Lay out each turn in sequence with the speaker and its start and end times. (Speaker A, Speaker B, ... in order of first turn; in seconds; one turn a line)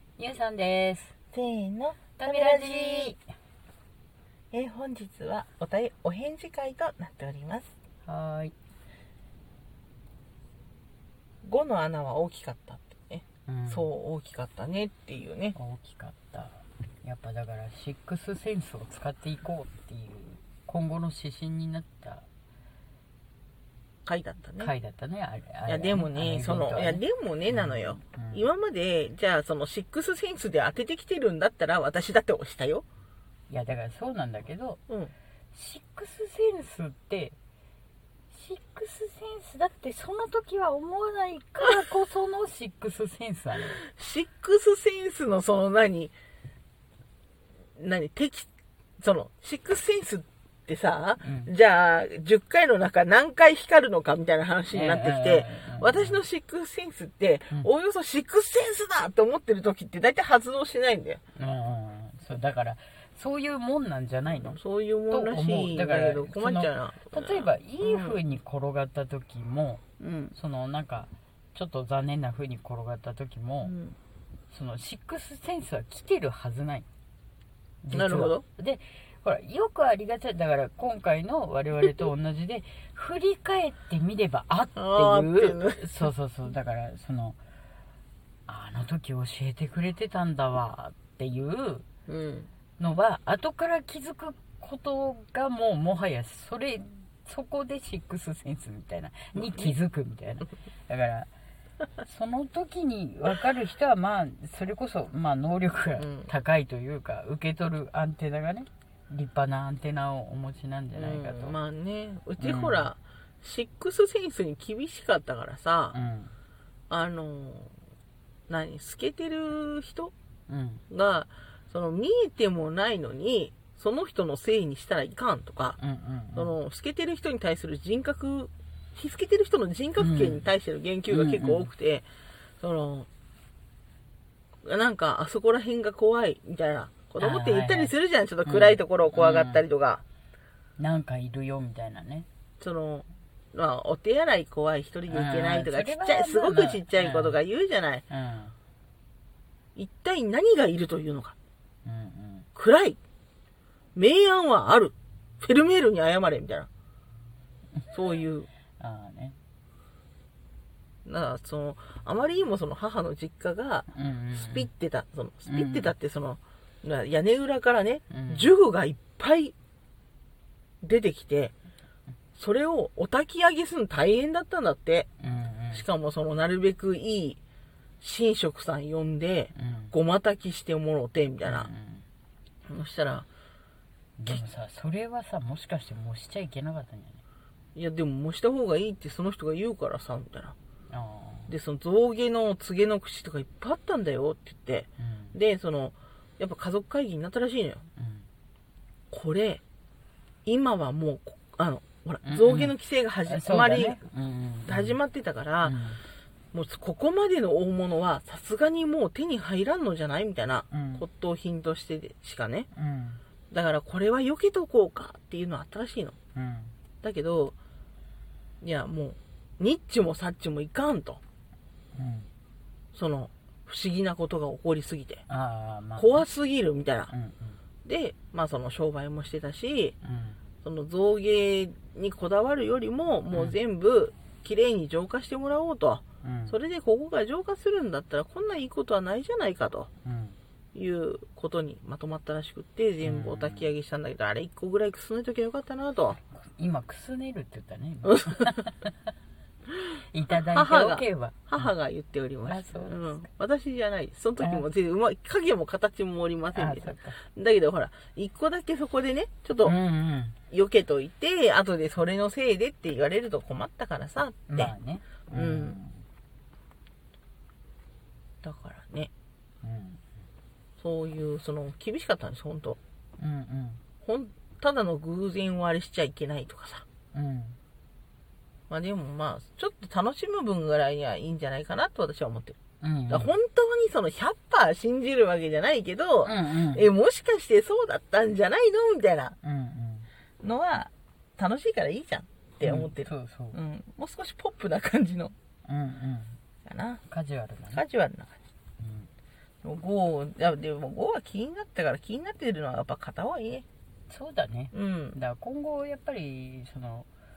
Speaker A: 0.2-1.1
Speaker B: 1.3-3.1
Speaker A: 2.2-3.2
Speaker B: 4.5-7.7
Speaker A: 8.0-8.5
Speaker B: 11.4-15.6
Speaker A: 13.5-13.9
Speaker A: 15.5-22.3
Speaker B: 24.1-24.7
Speaker A: 24.6-28.4
Speaker B: 25.7-32.8
Speaker A: 33.5-34.8
Speaker B: 34.9-35.1
Speaker A: 35.5-37.4
Speaker A: 38.3-43.8
Speaker B: 43.8-46.1
Speaker B: 47.8-48.5
Speaker B: 49.0-61.2
Speaker A: 51.2-51.5
Speaker A: 54.7-56.2
Speaker A: 61.4-64.6
Speaker B: 64.5-68.2
Speaker A: 65.1-73.7
Speaker B: 70.0-70.3
Speaker B: 73.6-74.0
Speaker A: 74.5-76.9
Speaker A: 77.8-87.4
Speaker B: 77.9-78.4
Speaker B: 84.8-85.8
Speaker A: 88.5-91.8
Speaker B: 92.1-92.5
Speaker A: 92.8-101.3
Speaker A: 102.0-111.5
Speaker B: 106.0-106.3
Speaker B: 111.0-116.0
Speaker A: 112.4-112.9
Speaker A: 115.9-116.3
Speaker B: 116.9-117.7
Speaker B: 118.5-120.1
Speaker A: 120.5-120.8
Speaker B: 120.9-125.8
Speaker A: 125.8-126.5
Speaker B: 126.3-132.0
Speaker A: 130.0-130.5
Speaker A: 131.1-131.7
Speaker B: 132.6-133.1
Speaker B: 134.6-140.0
Speaker A: 137.2-137.9
Speaker A: 138.4-139.6
Speaker A: 140.8-142.3
Speaker B: 142.6-148.0
Speaker A: 145.1-147.3
Speaker A: 148.1-148.5
Speaker B: 149.8-151.3
Speaker A: 151.8-152.5
Speaker B: 152.5-153.0
Speaker B: 153.9-156.7
Speaker B: 157.9-158.5
Speaker A: 158.8-159.4
Speaker B: 161.0-169.5
Speaker A: 163.9-164.7
Speaker A: 165.5-165.9
Speaker A: 168.1-168.5
Speaker B: 170.8-171.5
Speaker B: 172.4-175.1
Speaker A: 175.2-175.8
Speaker B: 175.7-177.4
Speaker B: 178.0-181.7
Speaker A: 179.5-179.9
Speaker A: 181.4-182.0
Speaker B: 182.7-183.2
Speaker A: 184.2-187.2
Speaker B: 187.8-190.5
Speaker A: 190.9-191.5
Speaker B: 191.5-197.8
Speaker A: 195.0-195.3
Speaker A: 198.0-198.2
Speaker B: 199.1-199.6
Speaker B: 200.4-204.0
Speaker A: 202.2-202.7
Speaker A: 203.3-205.0
Speaker B: 204.7-205.8
Speaker A: 205.6-206.0
Speaker B: 206.5-212.7
Speaker A: 210.7-211.0
Speaker A: 212.7-213.2
Speaker B: 213.5-216.2
Speaker A: 216.3-216.7
Speaker B: 217.0-217.5
Speaker B: 218.6-221.2
Speaker A: 221.9-222.3
Speaker B: 222.9-225.2
Speaker A: 225.3-226.2
Speaker B: 226.0-227.1
Speaker A: 227.1-227.6
Speaker B: 227.8-229.9
Speaker A: 230.0-230.4
Speaker B: 230.6-239.9
Speaker A: 236.2-236.6
Speaker A: 240.0-240.4
Speaker B: 240.7-246.2
Speaker A: 243.0-243.7
Speaker A: 246.3-248.9
Speaker B: 248.1-248.5
Speaker A: 250.1-251.7
Speaker B: 250.5-259.8
Speaker A: 252.4-253.2
Speaker A: 254.4-254.6
Speaker A: 256.5-257.2
Speaker A: 259.6-260.4
Speaker B: 260.5-264.7
Speaker A: 264.5-266.0
Speaker B: 265.3-265.8
Speaker B: 268.4-269.1
Speaker A: 269.6-270.0
Speaker B: 270.8-272.8
Speaker A: 273.2-273.8
Speaker B: 274.0-276.8
Speaker A: 277.1-277.6
Speaker B: 278.7-282.6
Speaker A: 282.8-283.3
Speaker B: 283.1-289.4
Speaker A: 286.2-286.9
Speaker A: 289.4-290.1
Speaker B: 290.4-295.3
Speaker A: 292.6-293.6
Speaker A: 295.6-296.4
Speaker B: 296.6-297.0
Speaker A: 297.1-297.8
Speaker B: 297.7-298.4
Speaker A: 298.8-299.1
Speaker B: 299.6-303.6
Speaker A: 304.1-307.1
Speaker B: 304.7-305.2